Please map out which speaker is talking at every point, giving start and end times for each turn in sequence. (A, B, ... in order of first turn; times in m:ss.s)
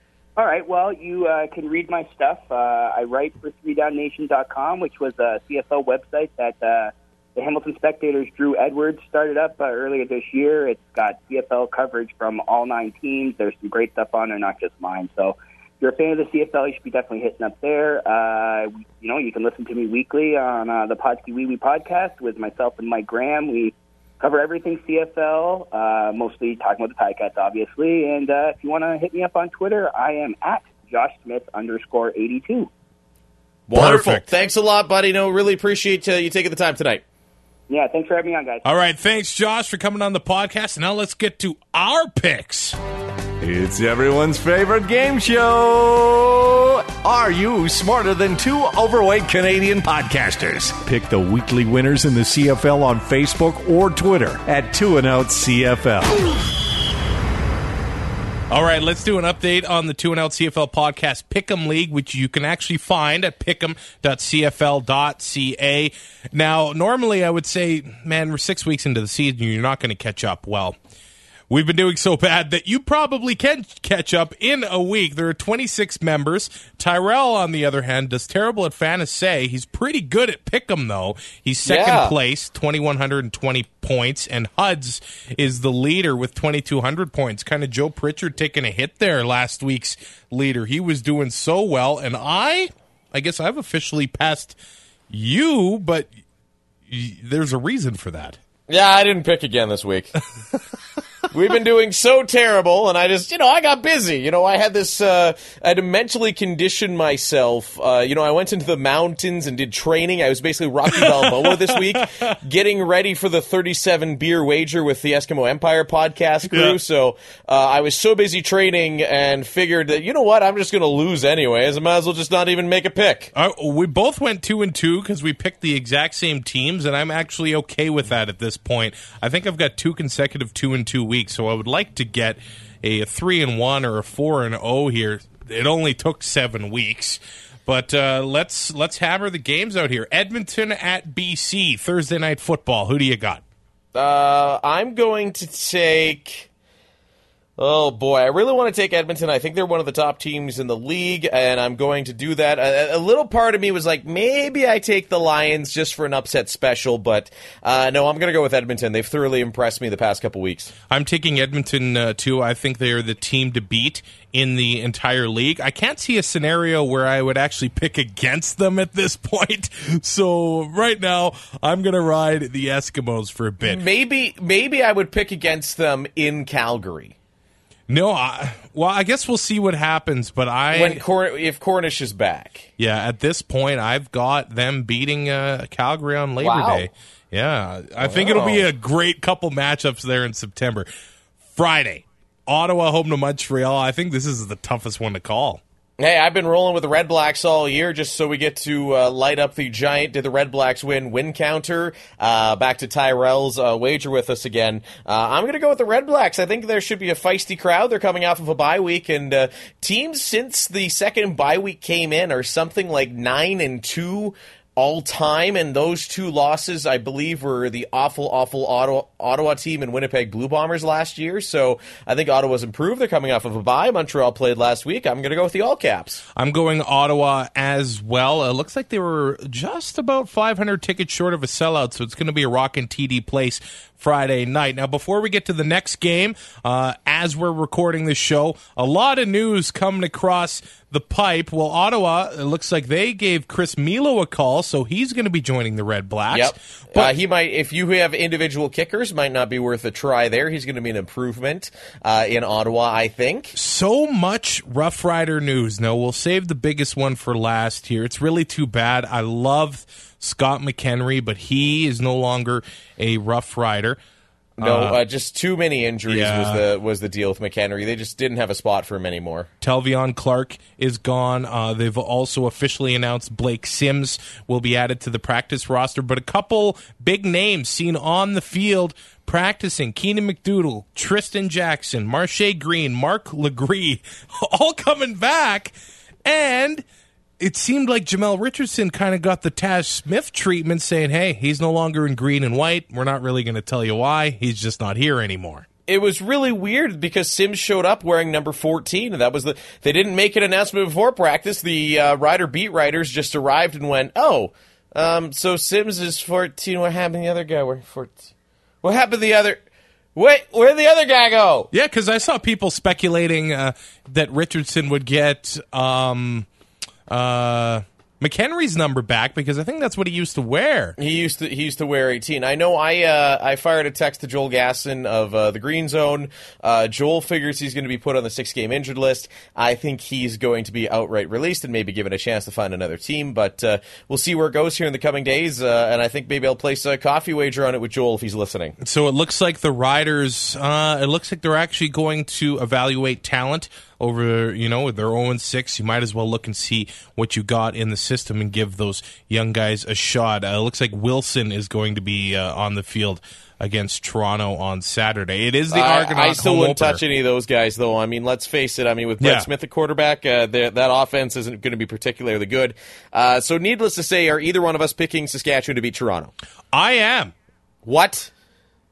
0:00.4-0:32.7 A
0:33.7-0:37.0 B
0:33.7-0:34.3 C
0:37.7-0:38.6 A
0:38.6-0:42.8 C
0:43.4-0:56.2 D
0:58.5-1:10.8 C
1:11.5-1:34.6 C
1:21.7-1:22.2 B
1:35.1-1:36.1 C
1:36.9-1:38.4 C
1:38.7-1:40.1 B
1:41.3-2:03.3 B
1:50.9-1:52.4 C
1:56.5-1:56.8 C
2:03.4-2:23.4 C
2:24.0-2:26.5 B
2:27.6-2:40.7 B
2:40.9-2:53.8 C
2:53.6-2:57.2 B
2:57.9-3:01.0 C
3:00.7-3:02.7 B
3:02.8-3:10.9 C
3:06.4-3:06.9 B
3:08.0-3:08.6 B
3:11.6-3:15.6 C
3:16.0-3:46.2 B
3:46.4-4:07.1 C
4:06.3-4:13.6 B
4:13.5-4:24.0 C
4:24.6-4:29.5 B
4:24.6-4:25.0 C
4:26.1-4:26.6 C
4:29.6-4:45.7 C
4:46.2-4:46.8 C
4:47.4-4:55.7 C
4:55.9-5:08.3 B
5:08.8-5:09.6 B
5:10.2-5:11.7 B
5:11.7-5:16.5 C
5:17.1-5:21.0 C
5:21.0-5:38.8 B
5:38.8-5:57.0 C
5:55.7-6:06.3 B
5:59.2-5:59.5 C
6:06.7-6:07.3 C
6:07.8-6:08.3 B